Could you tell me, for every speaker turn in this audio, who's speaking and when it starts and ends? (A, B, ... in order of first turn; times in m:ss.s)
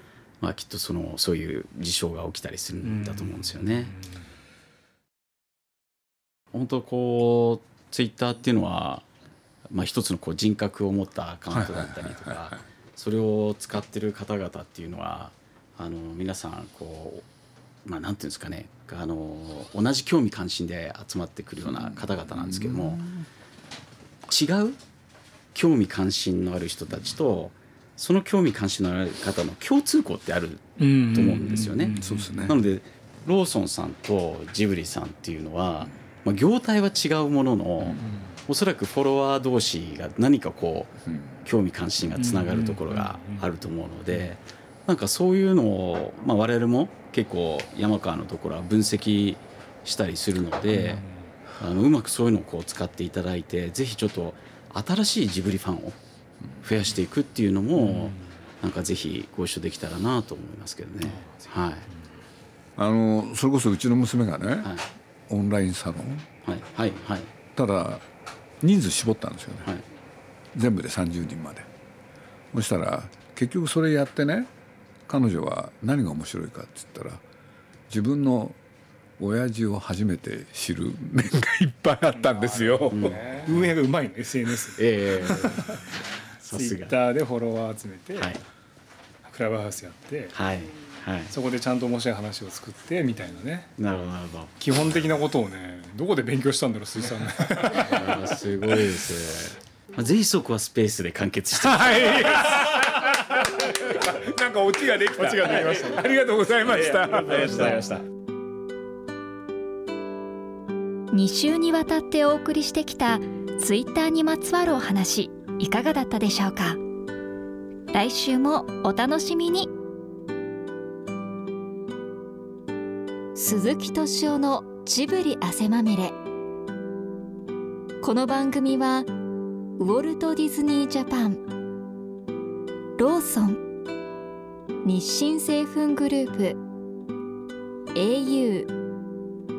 0:00.4-0:04.0 A
0:02.8-0:04.0 B
0:06.5-0:09.0 A
0:09.7-0:17.2 A
0:11.5-0:12.6 C
0:17.8-0:23.1 A
0:21.7-0:23.2 C
0:24.3-0:24.8 A
0:25.5-0:51.0 A
0:30.8-0:32.4 B
0:31.9-0:32.6 C
0:38.0-0:38.4 B
0:42.2-0:43.4 B
0:50.7-0:51.1 B
0:51.6-0:56.0 A
0:56.6-1:01.9 A
0:57.8-0:58.2 B
1:01.1-1:01.4 B
1:02.8-1:04.7 C
1:04.6-1:04.9 A
1:05.3-1:06.3 C
1:06.4-1:07.3 A
1:07.5-1:08.0 C
1:08.6-1:09.7 C
1:10.5-1:11.7 C
1:12.5-1:14.5 C
1:15.1-1:17.2 C
1:17.9-1:18.6 C
1:19.2-1:23.7 C
1:22.3-1:25.8 B
1:22.9-1:23.3 A
1:24.8-1:25.8 A
1:26.4-1:26.9 A
1:26.5-1:28.3 B
1:28.2-1:28.4 A
1:29.2-1:30.3 B
1:30.3-1:31.3 A
1:31.3-1:33.7 B
1:33.8-1:34.5 A
1:34.6-1:38.3 B
1:37.7-1:42.2 A
1:41.6-1:47.8 C
1:42.2-1:42.8 B
1:45.1-1:46.1 B
1:46.6-1:48.0 B
1:51.1-1:56.8 D
1:57.9-1:59.7 D
2:03.4-2:06.1 D
2:08.0-2:09.1 D
2:09.8-2:11.4 D
2:13.0-2:13.6 D
2:14.8-2:16.6 D
2:17.9-2:18.7 D